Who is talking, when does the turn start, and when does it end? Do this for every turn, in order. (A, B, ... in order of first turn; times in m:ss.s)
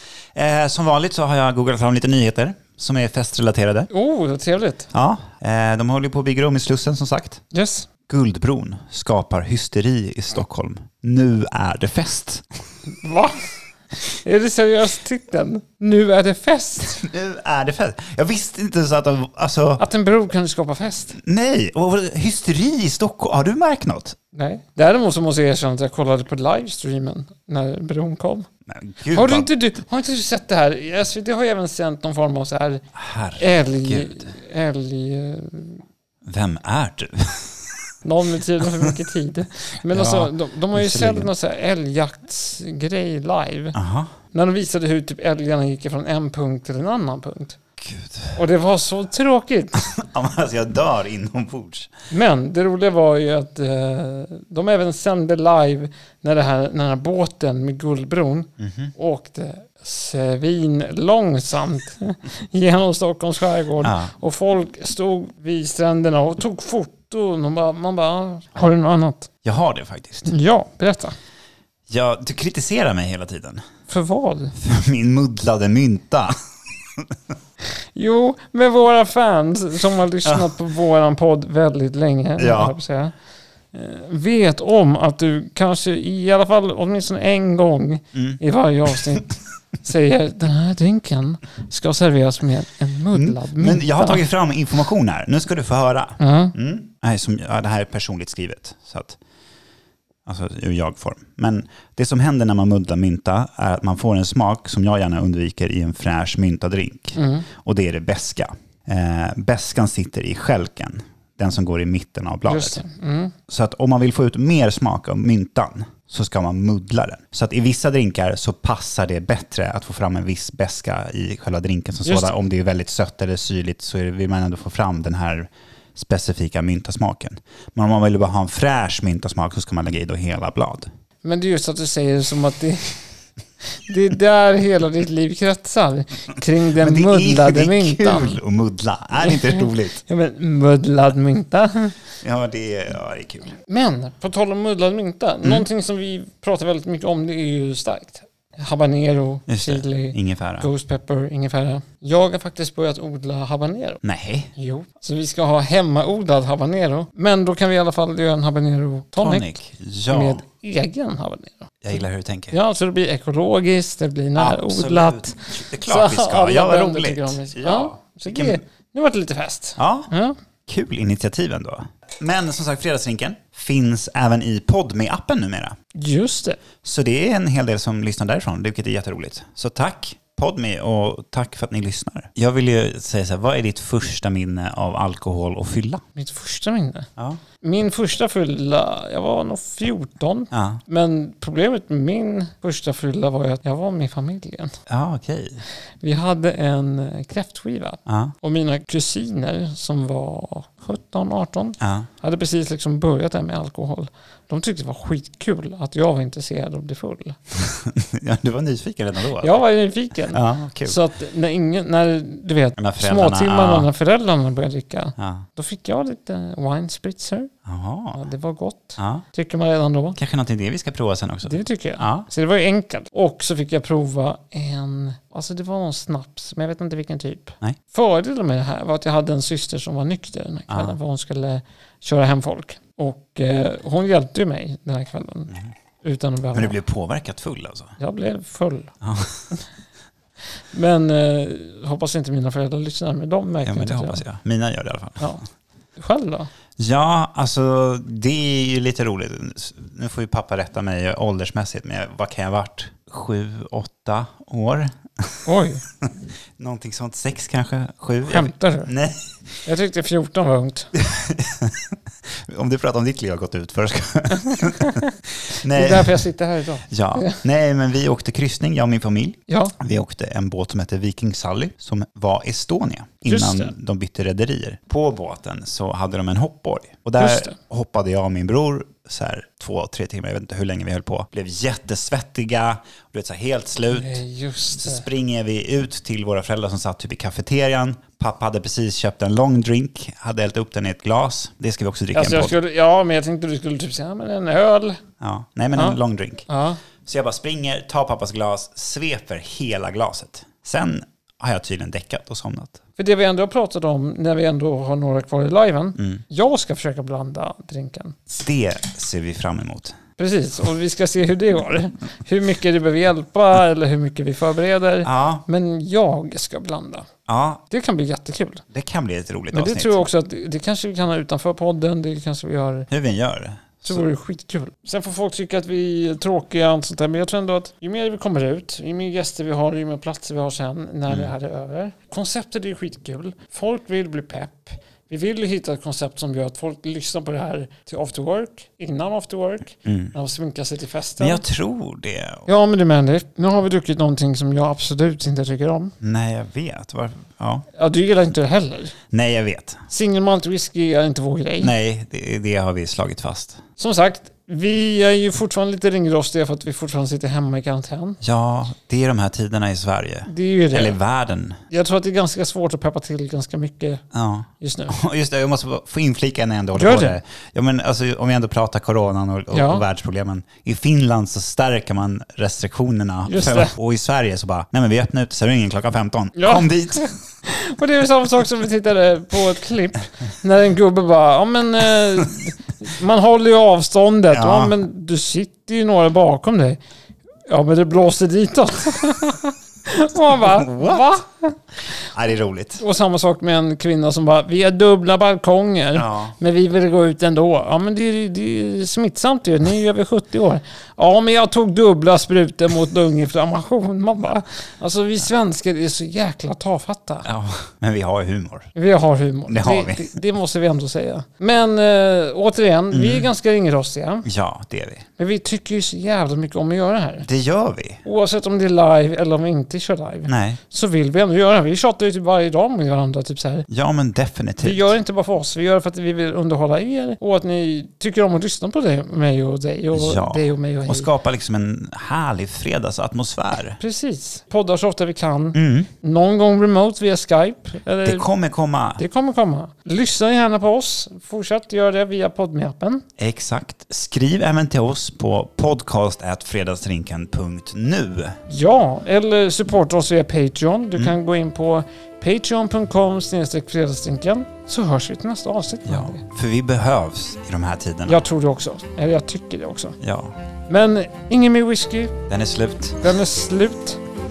0:00.4-0:03.9 A
0:03.9-0:04.9 B
0:04.9-0:07.4 A
0:07.5-0:07.9 B
0:08.1-0:12.4 A
0:12.9-0:17.0 B
0:17.0-0:19.8 A
0:19.8-0:21.2 B
0:21.2-0:24.2 A
0:24.3-0:28.5 B
0:28.7-0:29.5 A
0:29.1-0:35.8 B
0:33.0-0:34.3 A
0:36.2-0:37.7 A
0:38.0-0:43.8 B
0:39.9-0:41.3 A
0:43.7-0:44.1 A
0:44.3-0:47.6 B
0:47.8-0:48.4 A
0:48.4-0:49.9 B
0:49.8-0:51.9 A
0:52.1-1:09.3 B
0:58.6-0:58.9 A
1:03.8-1:04.1 A
1:09.4-1:10.3 A
1:10.3-1:11.2 B
1:11.9-1:13.6 A
1:13.9-1:14.6 B
1:14.6-1:16.3 A
1:17.9-1:23.2 B
1:20.2-1:20.5 A
1:22.4-1:22.8 A
1:23.7-1:34.2 B
1:28.1-1:28.4 A
1:33.1-1:39.2 A
1:36.2-1:36.6 B
1:40.3-1:52.8 A
1:47.2-1:47.5 B
1:52.5-1:53.3 B
1:53.5-2:10.9 A
2:02.0-2:02.4 B
2:11.2-2:13.0 B
2:13.9-2:18.4 B
2:16.7-2:20.0 A
2:19.2-2:22.0 B
2:22.2-2:23.6 A
2:23.6-2:34.0 B
2:29.5-2:30.7 A
2:34.0-2:34.5 A
2:34.6-2:39.6 B
2:39.2-2:40.4 A
2:40.1-2:50.4 B
2:41.8-2:42.6 A
2:44.4-2:48.6 A
2:49.8-2:50.1 A
2:50.7-2:55.8 A
2:56.0-2:56.6 B
2:56.8-3:06.0 A
3:06.2-3:07.1 B
3:07.6-3:14.8 B
3:10.5-3:10.8 A
3:14.9-3:15.6 A
3:16.0-3:27.4 B
3:18.1-3:18.3 A
3:21.8-3:22.1 A
3:27.5-3:29.6 A
3:29.4-3:37.5 B
3:30.3-3:31.0 A
3:32.8-3:33.9 A
3:35.2-3:35.4 A
3:37.6-3:38.2 A
3:38.1-3:40.2 B
3:39.0-3:39.2 A
3:40.2-3:42.3 A
3:41.5-3:56.8 B
3:50.7-3:51.0 A
3:56.5-3:58.0 A
3:58.0-3:59.0 B
3:59.0-3:59.5 A
4:00.7-4:04.2 B
4:03.6-4:05.4 A
4:06.0-4:06.5 B
4:06.8-4:15.4 A
4:15.5-4:15.8 B
4:16.0-4:19.3 A
4:18.3-4:18.9 B
4:19.7-4:20.9 B
4:21.0-4:22.0 A
4:22.5-4:26.3 A
4:24.4-4:25.1 B
4:25.7-4:27.4 B
4:26.9-4:44.2 A
4:29.5-4:29.8 B
4:33.2-4:33.7 B
4:37.2-4:37.6 B
4:43.9-4:45.1 B
4:44.8-4:52.6 A
4:52.1-4:55.0 B
4:55.2-4:56.5 A
4:55.8-4:56.8 B
4:57.0-5:02.8 A
5:03.0-5:08.3 B
5:08.3-5:10.0 A
5:10.2-5:17.1 B
5:15.0-5:15.4 A
5:17.3-5:17.6 A
5:17.7-5:18.6 B
5:18.7-5:20.1 A
5:19.5-5:22.9 B
5:22.9-5:24.1 A
5:23.9-5:41.4 B
5:39.8-5:40.1 A
5:41.2-5:42.5 A
5:42.5-5:45.9 B
5:46.0-5:47.7 A
5:47.8-5:49.0 B
5:49.1-5:49.8 A
5:49.9-5:51.7 B
5:51.6-5:53.6 A
5:53.8-5:58.2 B
5:58.2-6:01.6 A
6:00.3-6:01.0 B
6:01.7-6:04.0 B
6:04.1-6:17.1 A
6:04.6-6:05.0 B
6:06.7-6:07.2 B
6:09.5-6:09.8 B
6:13.3-6:13.7 B
6:16.4-6:26.8 B
6:24.3-6:24.8 A
6:27.5-6:31.6 B
6:30.4-6:31.1 A
6:32.1-6:32.8 A
6:32.8-6:47.3 B
6:36.0-6:36.4 A
6:47.2-6:48.7 A
6:48.8-6:54.3 B
6:49.5-6:50.2 A
6:52.9-6:53.3 A
6:54.2-6:55.0 A
6:55.2-6:57.3 B
6:57.2-6:58.0 A
6:58.0-7:03.7 B
7:00.3-7:00.6 A
7:03.7-7:05.0 A
7:04.6-7:11.1 B
7:09.9-7:13.8 A
7:13.8-7:18.3 B
7:15.5-7:15.9 A
7:18.0-7:19.0 A
7:19.0-7:23.0 B
7:23.2-7:28.4 A
7:28.5-7:36.2 B
7:35.8-7:38.2 A
7:38.1-7:40.0 B
7:40.0-7:40.4 A
7:40.7-7:42.2 B
7:42.3-7:43.0 A
7:43.0-7:44.0 B